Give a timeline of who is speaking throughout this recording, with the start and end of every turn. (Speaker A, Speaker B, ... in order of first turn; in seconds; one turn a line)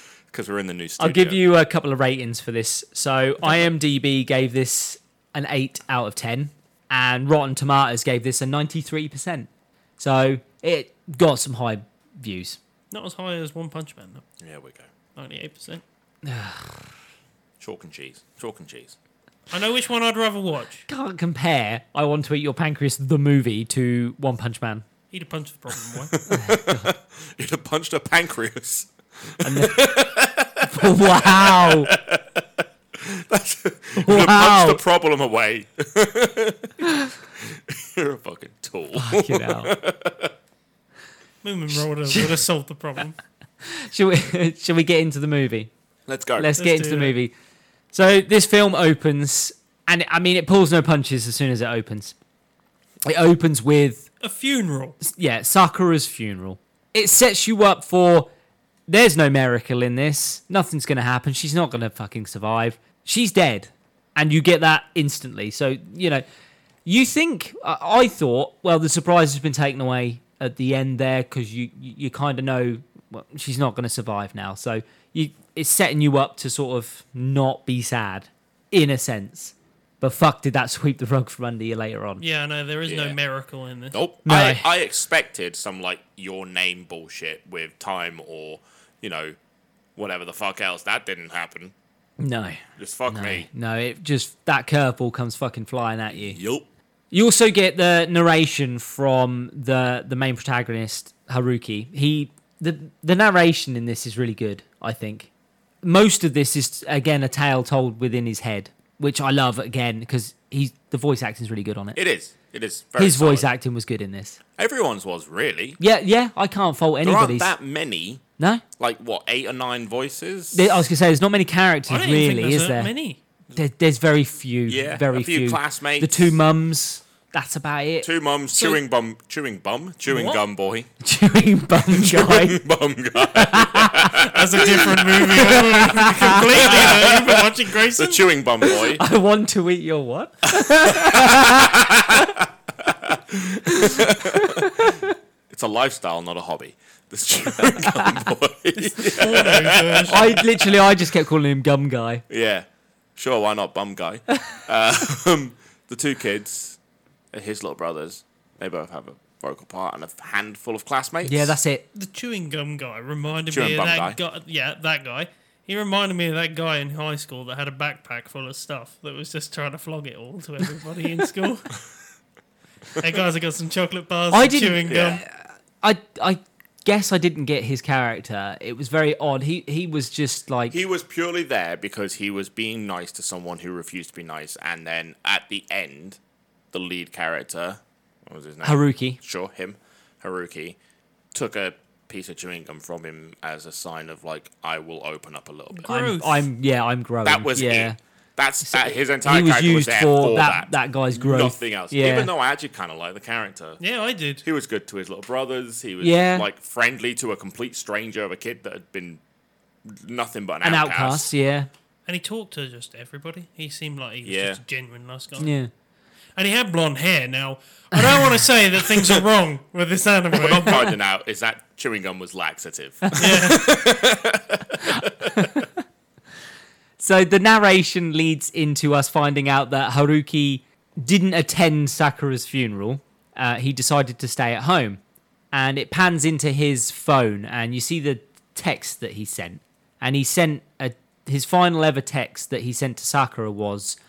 Speaker A: 0.3-1.4
Speaker B: 1.0-12.6
Speaker C: 3.4-3.7
Speaker C: 12.9-14.2
Speaker A: 14.4-14.9
Speaker C: 15.2-15.8
Speaker B: 16.2-16.9
Speaker A: 17.6-18.9
Speaker C: 19.5-20.9
Speaker B: 20.9-24.8
Speaker C: 25.1-26.1
Speaker A: 26.1-40.3
Speaker B: 26.3-26.9
Speaker B: 29.4-29.9
Speaker B: 30.6-31.9
Speaker B: 34.0-34.8
Speaker B: 39.0-39.7
Speaker C: 41.4-43.2
Speaker B: 43.6-45.7
Speaker A: 46.1-46.5
Speaker B: 46.4-47.3
Speaker C: 46.6-47.2
Speaker B: 47.9-52.1
Speaker B: 53.1-54.1
Speaker C: 54.2-55.0
Speaker B: 55.0-58.3
Speaker B: 58.9-66.2
Speaker B: 66.8-82.2
Speaker C: 82.2-84.0
Speaker A: 82.9-83.2
Speaker A: 83.9-89.4
Speaker B: 84.3-84.7
Speaker A: 90.0-91.7
Speaker B: 92.2-96.4
Speaker A: 92.8-93.5
Speaker A: 96.2-96.7
Speaker B: 97.1-105.3
Speaker B: 105.8-112.0
Speaker A: 112.0-113.5
Speaker B: 113.0-114.4
Speaker A: 114.6-115.8
Speaker B: 115.8-117.5
Speaker A: 117.0-118.2
Speaker B: 118.4-118.6
Speaker A: 118.8-120.8
Speaker B: 120.5-122.9
Speaker C: 121.9-123.2
Speaker B: 123.5-128.1
Speaker A: 124.7-126.4
Speaker A: 128.0-130.9
Speaker C: 130.1-130.4
Speaker B: 131.0-132.6
Speaker A: 131.9-135.7
Speaker B: 133.2-134.2
Speaker C: 134.2-138.3
Speaker B: 135.4-136.9
Speaker A: 136.6-139.0
Speaker B: 138.7-142.3
Speaker A: 140.5-145.0
Speaker B: 143.7-145.1
Speaker A: 145.5-150.8
Speaker B: 147.8-148.2
Speaker C: 148.8-150.4
Speaker B: 150.1-152.2
Speaker A: 152.3-156.8
Speaker A: 157.3-161.6
Speaker B: 161.2-161.8
Speaker C: 161.9-171.8
Speaker A: 163.5-164.2
Speaker C: 173.0-175.2
Speaker B: 174.3-180.8
Speaker A: 174.8-175.2
Speaker A: 180.7-186.2
Speaker A: 186.7-190.8
Speaker B: 188.6-189.2
Speaker A: 191.3-195.9
Speaker C: 195.7-196.5
Speaker B: 195.9-198.0
Speaker A: 197.2-203.8
Speaker B: 198.6-202.3
Speaker C: 203.8-204.4
Speaker A: 204.4-209.2
Speaker B: 206.0-206.5
Speaker A: 209.9-211.3
Speaker B: 210.6-211.7
Speaker C: 212.1-215.5
Speaker A: 214.2-214.6
Speaker B: 215.4-215.7
Speaker C: 216.4-220.9
Speaker B: 218.1-218.4
Speaker A: 220.3-225.5
Speaker B: 223.1-223.4
Speaker C: 223.2-223.6
Speaker B: 224.8-225.7
Speaker B: 227.0-235.0
Speaker B: 235.5-244.0